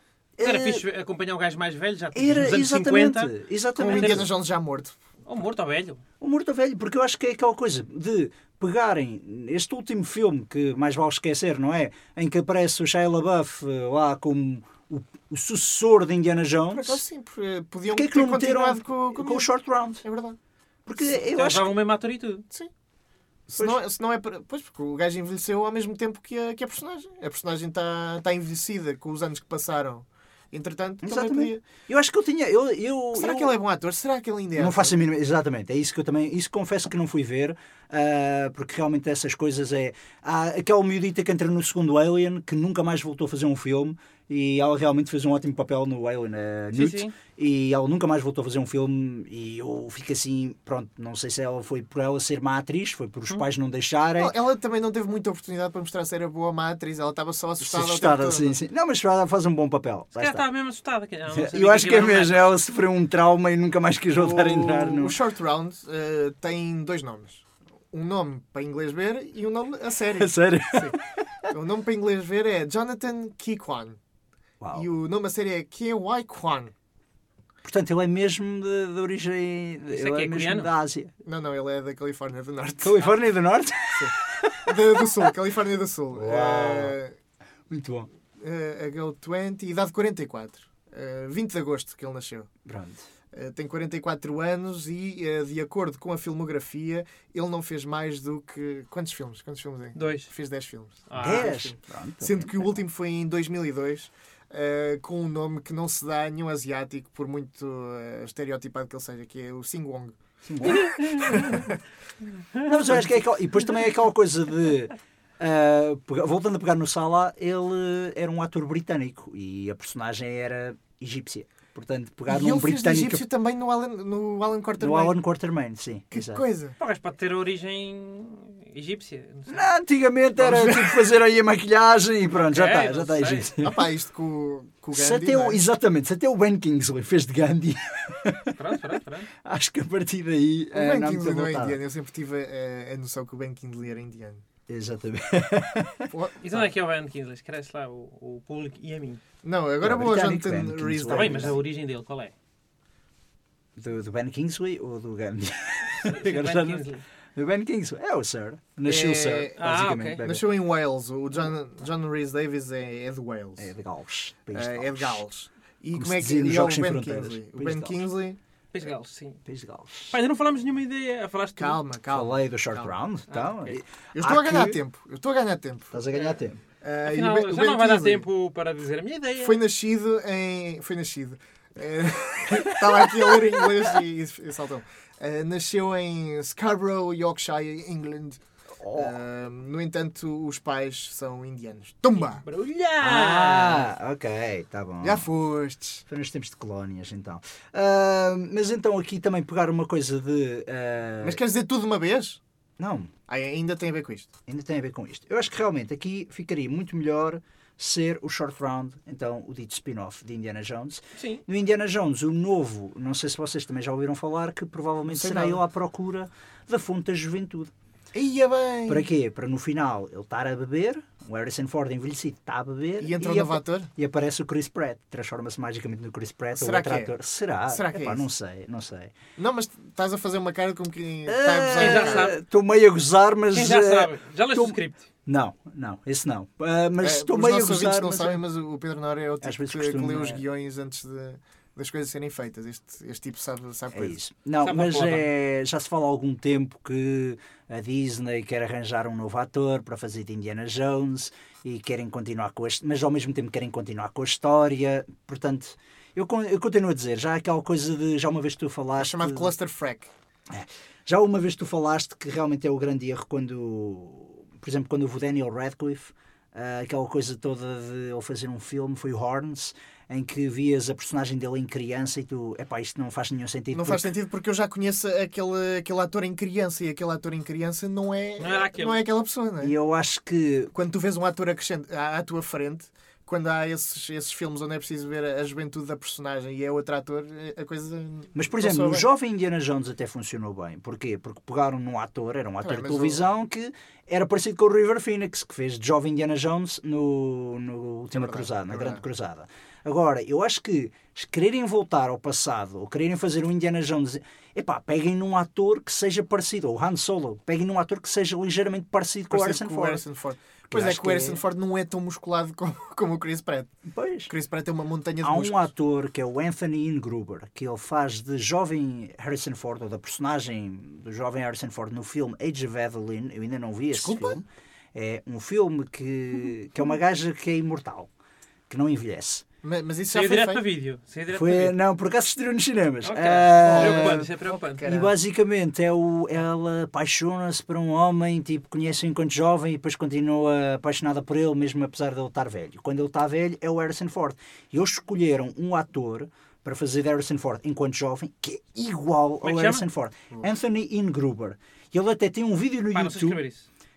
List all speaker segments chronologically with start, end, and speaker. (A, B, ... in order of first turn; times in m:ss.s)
0:00.4-0:00.8 A
0:00.4-0:04.3 B
0:02.1-0:04.3 A
0:03.8-0:04.9 C
0:05.3-0:06.0 B
0:06.2-0:17.0 A
0:16.7-0:19.5 C
0:17.9-0:20.0 A
0:20.0-0:20.4 C
0:20.9-0:21.8 A
0:21.3-0:22.4 B
0:23.5-0:31.6 C
0:31.0-0:33.6 A
0:33.1-0:35.0 C
0:34.6-0:54.4 A
0:46.7-0:47.1 B
0:54.2-0:58.6 C
0:57.6-1:00.4 A
1:00.2-1:02.5 B
1:01.3-1:05.2 A
1:04.1-1:11.0 C
1:10.2-1:11.0 A
1:11.5-1:14.0 C
1:14.6-1:14.9 A
1:14.7-1:16.7 C
1:17.6-1:21.1 A
1:19.9-1:20.7 B
1:21.2-1:23.1 C
1:22.8-1:25.2 A
1:23.9-1:27.1 C
1:26.1-1:27.0 A
1:27.7-1:28.1 A
1:28.4-1:32.5 C
1:32.6-1:33.0 A
1:33.3-1:51.8 C
1:39.9-1:40.3 B
1:41.1-1:41.5 B
1:41.2-1:42.8 A
1:50.4-1:51.6 A
1:50.6-1:51.6 B
1:52.6-2:03.2 A
2:02.3-2:05.2 C
2:04.8-2:06.4 A
2:06.1-2:06.8 C
2:06.8-2:09.7 B
2:09.5-2:13.8 A
2:10.4-2:11.0 C
2:12.3-2:13.5 B
2:13.6-2:15.6 C
2:14.9-2:18.6 A
2:18.6-2:19.3 B
2:19.4-2:21.8 A
2:20.7-2:24.4 C
2:24.7-2:26.1 A
2:26.1-2:26.4 C
2:26.4-2:29.2 B
2:29.4-2:31.6 C
2:29.8-2:31.6 A
2:31.1-2:32.3 B
2:33.8-2:40.4 A
2:36.0-2:37.0 B
2:38.9-2:39.6 C
2:39.6-2:40.2 B
2:40.2-2:43.7 C
2:43.6-2:45.2 A
2:44.5-2:48.4 C
2:45.9-2:48.0 A
2:48.7-2:49.4 B
2:49.4-2:50.1 A
2:50.1-2:51.8 B
2:51.6-2:52.9 C
2:52.1-2:54.8 A
2:53.3-2:53.8 B
2:54.1-2:56.0 C
2:55.9-2:56.6 A
2:56.8-2:58.2 C
2:57.0-2:59.6 B
2:59.4-3:08.4 C
3:02.5-3:03.9 A
3:08.8-3:09.2 A
3:08.9-3:12.4 C
3:12.2-3:13.9 B
3:13.0-3:15.3 A
3:15.0-3:16.0 C
3:16.1-3:21.4 A
3:21.2-3:22.4 C
3:22.8-3:23.1 A
3:23.3-3:24.3 C
3:24.5-3:37.7 A
3:31.2-3:31.4 B
3:35.1-3:35.6 C
3:38.1-3:39.1 C
3:38.9-3:49.1 A
3:43.0-3:43.9 C
3:46.6-3:47.1 C
3:47.7-3:48.3 C
3:49.4-3:52.3 C
3:51.3-3:58.4 A
3:51.8-3:52.4 B
3:53.5-3:55.1 B
3:57.0-4:04.2 C
3:59.4-4:00.4 A
4:03.9-4:19.5 A
4:04.6-4:05.3 B
4:19.0-4:20.1 C
4:20.5-4:34.1 A
4:33.7-4:39.8 C
4:38.4-4:39.0 B
4:39.6-4:40.7 A
4:40.7-4:49.1 C
4:48.4-5:10.0 A
4:52.6-4:53.2 C
4:58.1-4:59.0 C
5:09.3-5:13.7 C
5:10.7-5:11.4 A
5:13.9-5:14.3 A
5:14.3-5:15.7 C
5:15.2-5:28.1 A
5:23.9-5:24.4 C
5:28.7-5:29.4 A
5:29.6-5:30.6 C
5:30.1-5:31.8 B
5:31.3-5:34.3 A
5:33.0-5:34.9 B
5:33.6-5:35.1 C
5:34.8-5:53.4 A
5:49.4-5:49.8 B
5:52.9-5:53.7 B